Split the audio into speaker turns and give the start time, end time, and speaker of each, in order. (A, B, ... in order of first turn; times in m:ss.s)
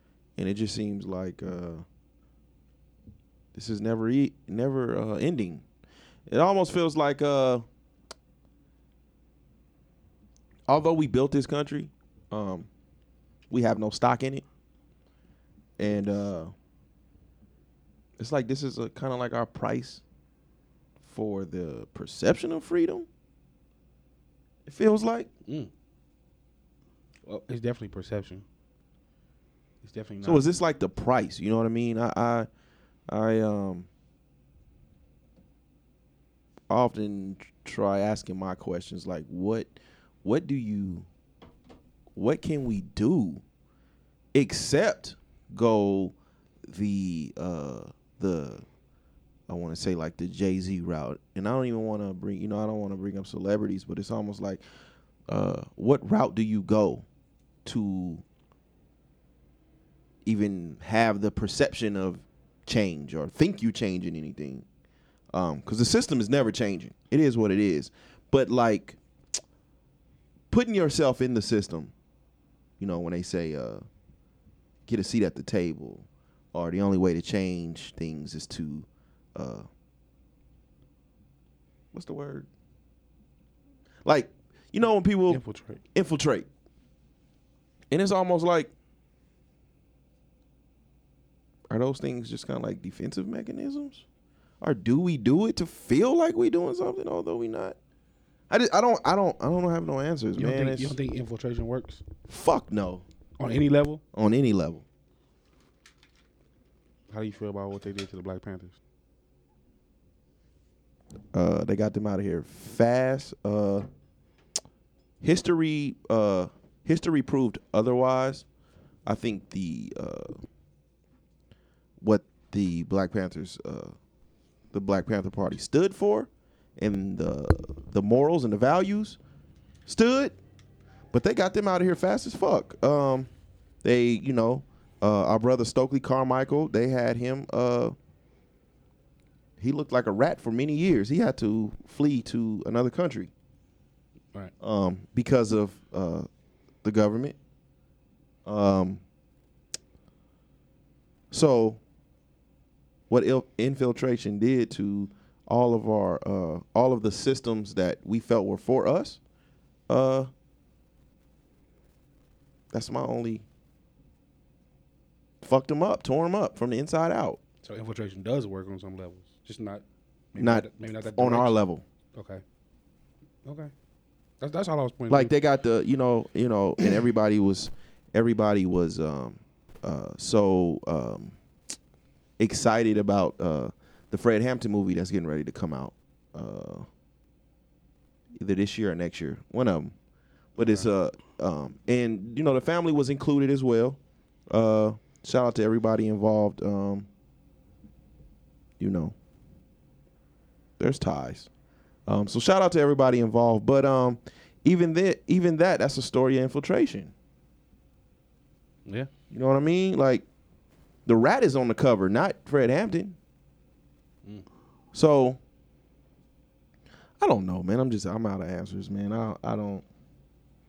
0:00.4-0:01.8 A
0:03.6-0:05.6 A
0:06.3-0:07.7 A
0:10.7-0:12.7 A
0:13.5-0:14.4 A
0:15.8-0:16.5 A
0:18.2-0:20.0 A
0:21.0-0:23.1 A
0:24.7-0:25.3 A
0:27.3-0:28.4 B
0:29.8-0:30.5 B
0:30.2-0:32.5 A
0:33.1-0:33.9 A
0:36.7-0:41.1 A
0:42.2-0:43.4 A
0:44.3-0:46.1 A
0:46.7-0:48.6 A
0:49.5-0:54.6 A
0:55.3-0:57.0 A
0:57.6-0:58.2 A
1:00.2-1:04.6 A
1:05.3-1:09.0 A
1:10.5-1:11.9 A
1:12.8-1:13.8 A
1:14.9-1:19.7 A
1:21.9-1:22.5 A
1:24.0-1:25.4 A
1:25.3-1:25.8 B
1:25.9-1:26.5 A
1:27.9-1:28.7 A
1:31.7-1:34.0 A
1:34.6-1:37.8 A
1:38.5-1:41.0 A
1:40.4-1:42.0 B
1:42.3-1:43.0 A
1:43.4-1:44.0 B
1:44.1-1:44.8 A
1:47.1-1:48.8 B
1:51.3-1:53.9 A
1:55.2-1:58.4 A
1:59.1-2:00.4 A
2:02.0-2:04.0 A
2:04.7-2:09.2 A
2:09.9-2:10.4 A
2:11.1-2:13.3 A
2:13.8-2:18.0 A
2:19.6-2:23.3 A
2:24.6-2:26.3 A
2:26.8-2:27.4 A
2:28.5-2:29.0 A
2:31.3-2:31.8 A
2:33.1-2:39.2 A
2:39.9-2:40.3 A
2:42.7-2:43.4 A
2:45.4-2:47.4 A
2:47.6-2:51.6 B
2:50.4-2:51.8 A
2:52.2-2:52.4 B
2:53.4-2:53.7 B
2:54.4-2:55.3 B
2:55.1-3:01.4 A
3:02.4-3:06.9 A
3:08.4-3:09.9 A
3:10.6-3:14.0 A
3:10.6-3:10.9 B
3:14.5-3:17.1 A
3:18.8-3:19.2 A
3:20.8-3:21.5 A
3:22.1-3:27.1 A
3:29.3-3:30.2 A
3:31.1-3:33.2 A
3:34.9-3:35.4 A
3:37.2-3:39.8 A